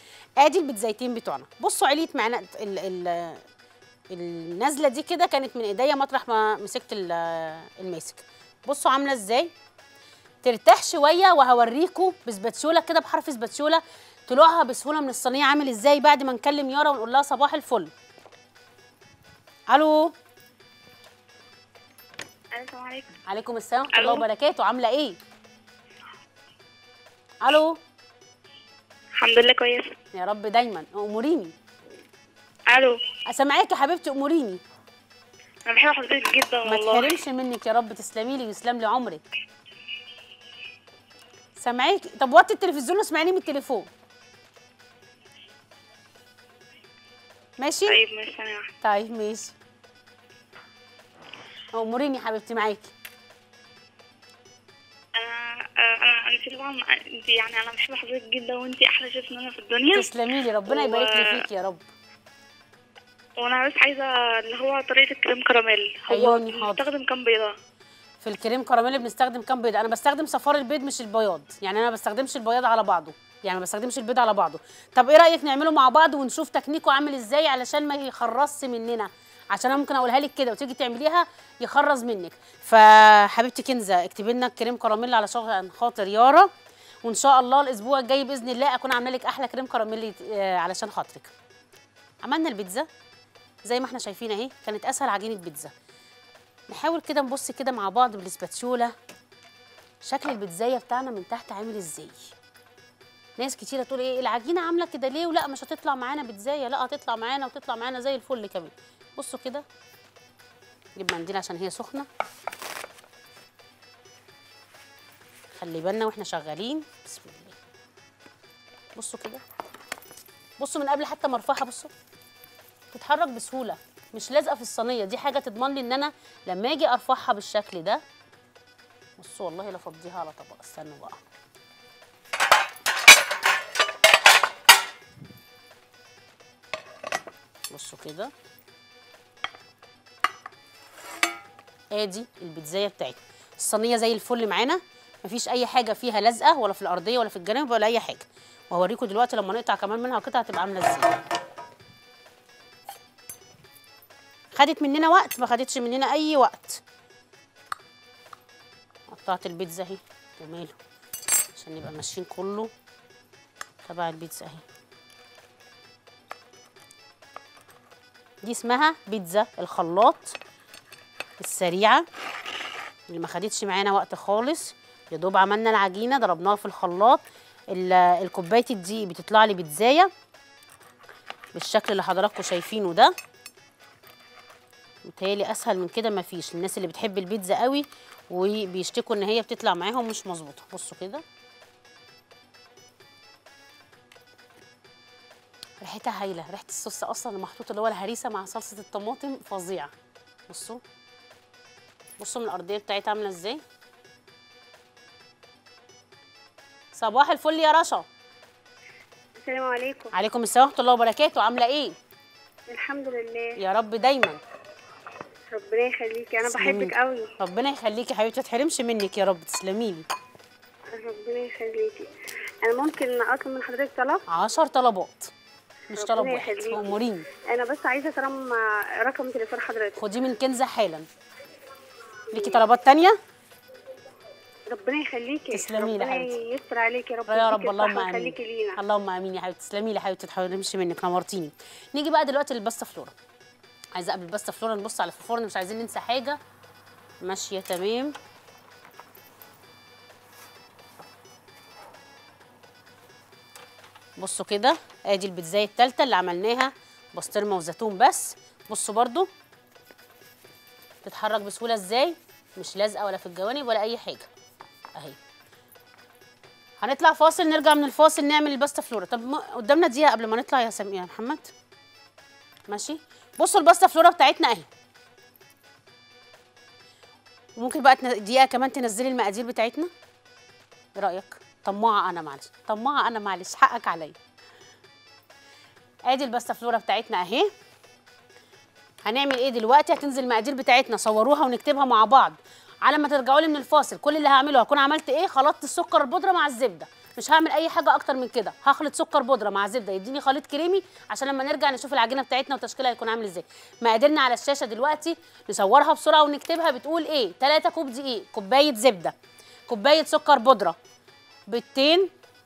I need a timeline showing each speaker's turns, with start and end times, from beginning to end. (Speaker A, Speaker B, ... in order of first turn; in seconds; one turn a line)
Speaker A: 0.4-3.4
Speaker A: 4.1-9.5
Speaker A: 10.4-17.9
Speaker A: 19.7-20.1
Speaker B: 22.6-23.1
Speaker A: 23.3-25.2
Speaker B: 23.9-24.2
Speaker A: 27.4-27.8
Speaker B: 29.2-29.9
Speaker A: 30.1-31.5
Speaker B: 32.7-33.0
Speaker A: 33.3-34.6
Speaker B: 35.7-37.1
Speaker A: 36.6-39.2
Speaker A: 41.6-43.9
Speaker A: 47.6-48.0
Speaker B: 47.9-48.7
Speaker A: 48.8-49.5
Speaker A: 51.7-52.9
Speaker B: 55.1-60.1
Speaker A: 59.9-61.9
Speaker B: 60.7-61.2
Speaker B: 63.4-67.5
Speaker A: 66.1-66.8
Speaker A: 68.2-86.5
Speaker A: 87.0-91.3
Speaker A: 92.2-92.9
Speaker A: 93.7-95.7
Speaker A: 96.7-98.9
Speaker A: 100.0-102.3
Speaker A: 103.4-109.7
Speaker A: 111.0-112.1
Speaker A: 115.5-117.6
Speaker A: 119.0-119.4
Speaker A: 120.6-121.9
Speaker A: 122.9-128.0
Speaker A: 129.2-131.2
Speaker A: 137.7-138.3
Speaker A: 141.9-151.1
Speaker A: 154.5-156.8
Speaker A: 159.1-160.8
Speaker A: 161.6-162.7
Speaker A: 163.8-164.6
Speaker A: 168.4-170.4
Speaker A: 171.4-172.0
Speaker A: 173.1-180.1
Speaker A: 181.5-183.1
Speaker A: 185.0-191.2
Speaker A: 195.8-199.9
Speaker A: 200.5-200.8
Speaker A: 202.2-203.6
Speaker A: 206.9-208.0
Speaker C: 209.4-210.1
Speaker A: 210.1-211.9
Speaker C: 212.7-213.5
Speaker A: 213.6-214.4
Speaker C: 215.5-217.3
Speaker A: 216.4-220.0
Speaker C: 220.9-222.1
Speaker C: 222.6-224.2
Speaker A: 224.3-225.3
Speaker A: 225.9-227.2
Speaker C: 226.0-226.9
Speaker C: 227.5-230.0
Speaker A: 230.0-231.1
Speaker A: 232.3-233.2
Speaker C: 234.7-238.8
Speaker A: 235.5-236.3
Speaker A: 237.3-243.1
Speaker A: 243.9-246.4
Speaker A: 247.2-248.1
Speaker A: 254.2-259.3
Speaker A: 261.0-264.3
Speaker A: 266.8-271.5
Speaker A: 272.7-274.7
Speaker A: 277.6-279.9
Speaker A: 281.0-284.1
Speaker A: 286.1-287.5
Speaker A: 289.0-309.1
Speaker A: 309.7-310.8
Speaker A: 311.5-312.1